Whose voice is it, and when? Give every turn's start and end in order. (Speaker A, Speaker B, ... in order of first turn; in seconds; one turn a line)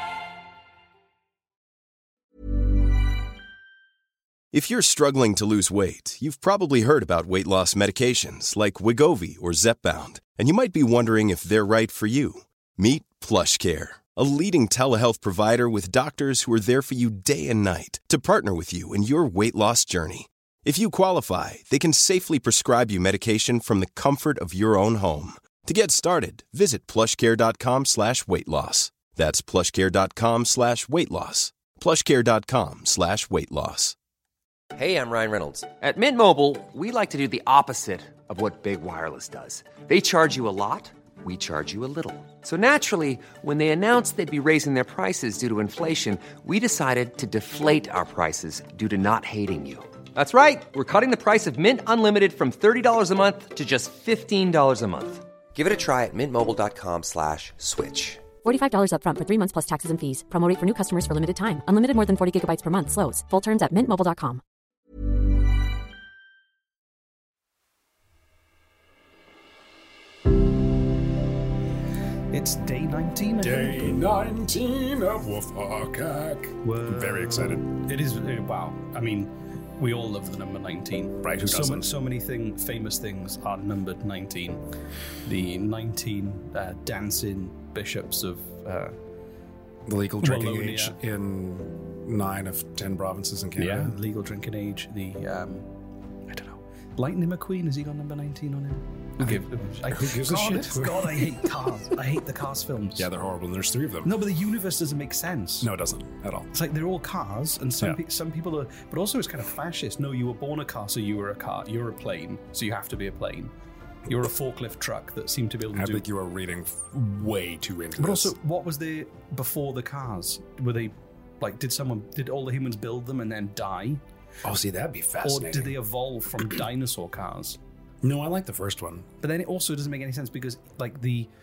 Speaker A: 4.5-34.0
Speaker B: 34.8-58.2
Speaker C: 58.4-64.4
Speaker D: 72.3-74.0
Speaker E: 73.4-77.7
Speaker D: 76.6-84.6
Speaker E: 81.2-81.9
Speaker D: 85.2-89.0
Speaker E: 89.9-94.0
Speaker D: 90.2-91.0
Speaker D: 93.6-95.7
Speaker D: 96.3-103.1
Speaker E: 99.2-101.4
Speaker E: 103.0-104.1
Speaker D: 104.0-105.7
Speaker E: 105.6-106.5
Speaker D: 106.5-113.5
Speaker D: 114.1-116.0
Speaker E: 115.8-118.3
Speaker D: 118.0-124.0
Speaker E: 124.4-125.8
Speaker D: 125.2-127.6
Speaker E: 128.0-129.1
Speaker D: 129.2-131.3